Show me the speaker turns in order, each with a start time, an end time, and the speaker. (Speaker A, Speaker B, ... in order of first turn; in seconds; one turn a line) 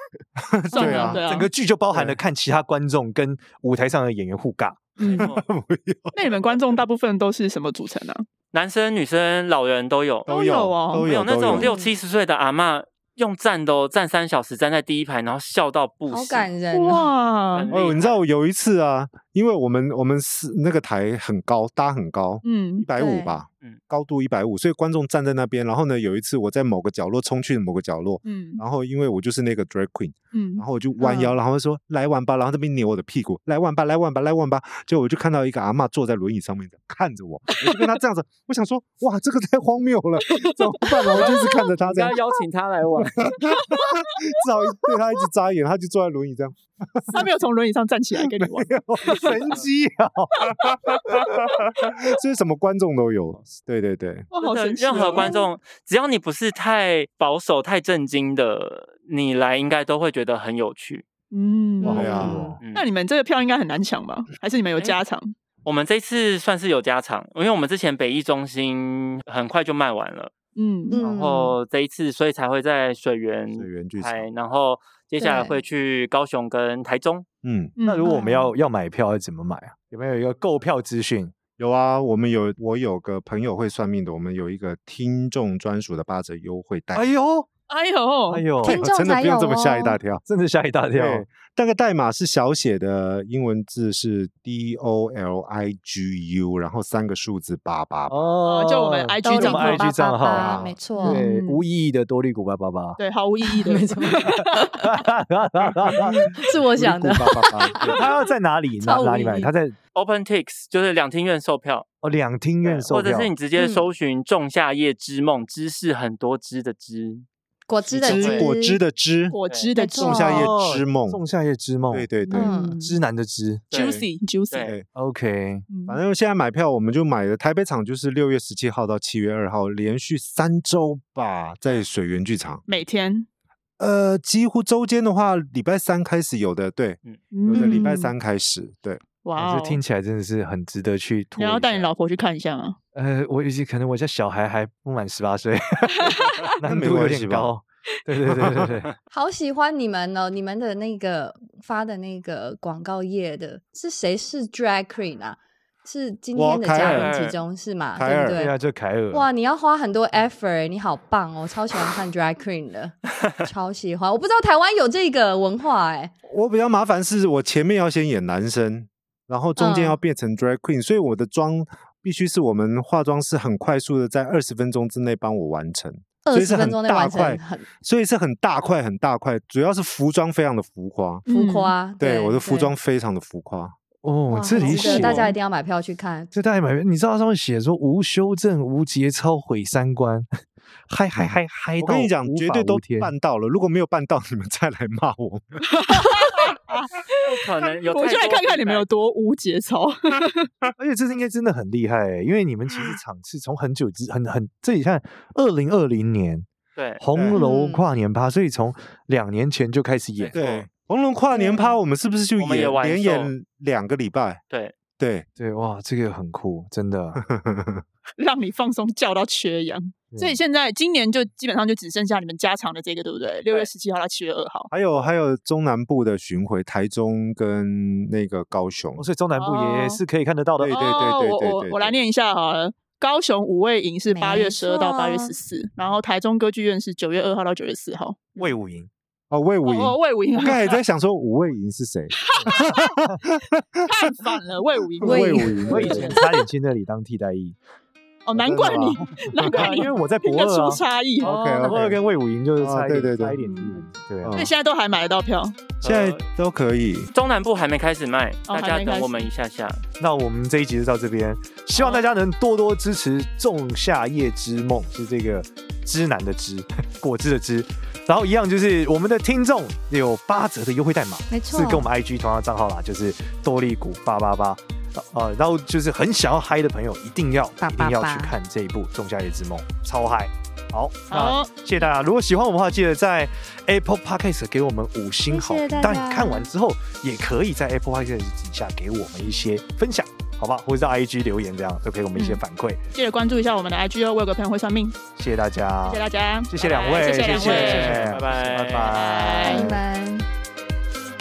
Speaker A: 0.4-1.2
Speaker B: 0.7-1.5
Speaker C: 0.8-5.0
Speaker D: 0.8-1.2
Speaker A: 1.9-2.2
Speaker B: 5.0-5.3
Speaker E: 5.0-5.5
Speaker A: 5.0-6.4
Speaker B: 6.1-8.3
Speaker E: 8.5-10.3
Speaker A: 10.3-11.8
Speaker B: 10.3-11.1
Speaker E: 11.0-16.5
Speaker D: 11.5-11.9
Speaker D: 16.1-17.1
Speaker B: 16.7-17.7
Speaker E: 17.5-18.2
Speaker A: 17.7-42.2
Speaker B: 22.4-22.9
Speaker D: 23.0-23.4
Speaker B: 28.2-28.6
Speaker B: 30.3-30.6
Speaker D: 31.0-31.4
Speaker B: 40.3-41.5
Speaker E: 41.8-43.5
Speaker A: 43.2-47.3
Speaker B: 47.1-49.4
Speaker A: 48.4-49.6
Speaker C: 49.0-51.3
Speaker A: 50.5-54.3
Speaker B: 54.3-55.5
Speaker E: 54.4-61.0
Speaker B: 61.3-65.3
Speaker C: 61.8-62.6
Speaker D: 61.8-62.6
Speaker A: 61.9-62.5
Speaker E: 62.6-62.9
Speaker E: 65.6-70.3
Speaker B: 70.5-71.0
Speaker D: 70.9-71.6
Speaker E: 71.0-77.3
Speaker A: 73.5-74.3
Speaker D: 75.2-75.6
Speaker A: 77.4-77.7
Speaker B: 77.8-78.5
Speaker C: 77.8-81.3
Speaker D: 78.1-78.4
Speaker A: 81.6-87.1
Speaker C: 86.9-87.5
Speaker B: 87.7-88.5
Speaker C: 88.3-88.8
Speaker D: 88.6-90.0
Speaker A: 88.6-90.2
Speaker C: 90.2-91.3
Speaker A: 90.9-98.3
Speaker C: 98.1-103.0
Speaker B: 98.4-99.9
Speaker D: 99.2-101.2
Speaker A: 100.3-100.8
Speaker B: 101.0-101.6
Speaker B: 103.0-104.5
Speaker D: 103.5-105.0
Speaker C: 104.8-106.3
Speaker D: 106.1-108.1
Speaker A: 106.8-108.0
Speaker C: 107.8-109.8
Speaker D: 108.8-109.5
Speaker E: 110.0-111.9
Speaker C: 112.0-113.3
Speaker E: 112.6-117.3
Speaker D: 113.6-113.9
Speaker D: 117.7-118.8
Speaker E: 117.9-118.5
Speaker A: 118.0-119.4
Speaker B: 119.3-120.5
Speaker D: 119.8-120.5
Speaker A: 120.0-121.2
Speaker C: 120.2-122.2
Speaker A: 121.9-122.5
Speaker B: 122.2-123.0
Speaker D: 122.3-122.8
Speaker C: 122.8-123.6
Speaker E: 123.7-124.0
Speaker B: 123.7-124.7
Speaker A: 123.7-124.1
Speaker E: 124.5-124.8
Speaker C: 125.0-125.7
Speaker B: 125.7-126.0
Speaker A: 125.9-132.6
Speaker B: 132.7-133.3
Speaker A: 133.8-139.0
Speaker B: 137.3-138.1
Speaker D: 137.5-138.0
Speaker B: 139.2-139.8
Speaker C: 139.4-141.9
Speaker B: 141.4-142.8
Speaker C: 142.9-148.9
Speaker A: 146.6-147.5
Speaker A: 148.4-148.7
Speaker D: 149.1-158.6
Speaker A: 156.3-157.1
Speaker E: 156.7-157.4
Speaker A: 158.0-158.4
Speaker C: 158.3-159.3
Speaker D: 159.1-166.1
Speaker A: 166.3-181.2
Speaker D: 169.6-170.0
Speaker D: 176.2-177.7
Speaker B: 181.3-181.8
Speaker D: 181.3-182.7
Speaker A: 182.0-183.8
Speaker C: 184.0-185.4
Speaker D: 184.3-186.3
Speaker A: 184.6-185.3
Speaker C: 186.3-190.3
Speaker C: 190.9-193.1
Speaker A: 191.8-195.6
Speaker B: 195.7-197.3
Speaker E: 197.2-198.9
Speaker B: 197.8-200.5
Speaker C: 200.8-206.5
Speaker E: 206.8-207.0
Speaker C: 207.0-210.4
Speaker A: 207.1-207.4
Speaker D: 207.3-207.9
Speaker E: 210.2-210.7
Speaker A: 210.3-214.4
Speaker D: 211.3-211.8
Speaker E: 212.4-213.3
Speaker A: 215.0-215.3
Speaker C: 215.4-217.2
Speaker A: 217.2-217.8
Speaker B: 218.2-224.7
Speaker C: 220.1-220.4
Speaker A: 224.7-229.1
Speaker C: 229.0-230.8
Speaker B: 229.3-230.0
Speaker A: 230.6-232.0
Speaker B: 230.7-238.5
Speaker D: 234.1-235.3
Speaker C: 238.4-238.9
Speaker A: 239.3-244.0
Speaker B: 239.7-240.8
Speaker B: 242.2-243.0
Speaker B: 243.9-246.2
Speaker A: 245.0-246.1
Speaker D: 245.0-246.2
Speaker C: 245.7-247.6
Speaker B: 248.3-251.9
Speaker A: 248.4-249.7
Speaker C: 249.5-254.4
Speaker A: 251.2-252.0
Speaker A: 252.6-253.4
Speaker B: 253.4-255.6
Speaker A: 254.2-254.5
Speaker A: 255.8-257.1
Speaker E: 255.8-256.2
Speaker E: 257.1-259.8
Speaker B: 258.5-259.3
Speaker C: 260.0-292.8
Speaker D: 271.3-271.9
Speaker D: 277.6-278.4
Speaker B: 281.1-281.9
Speaker D: 285.3-286.5
Speaker D: 292.1-292.4
Speaker B: 292.9-295.0
Speaker C: 295.2-299.8
Speaker B: 295.8-298.2
Speaker E: 296.6-299.7
Speaker D: 299.4-300.3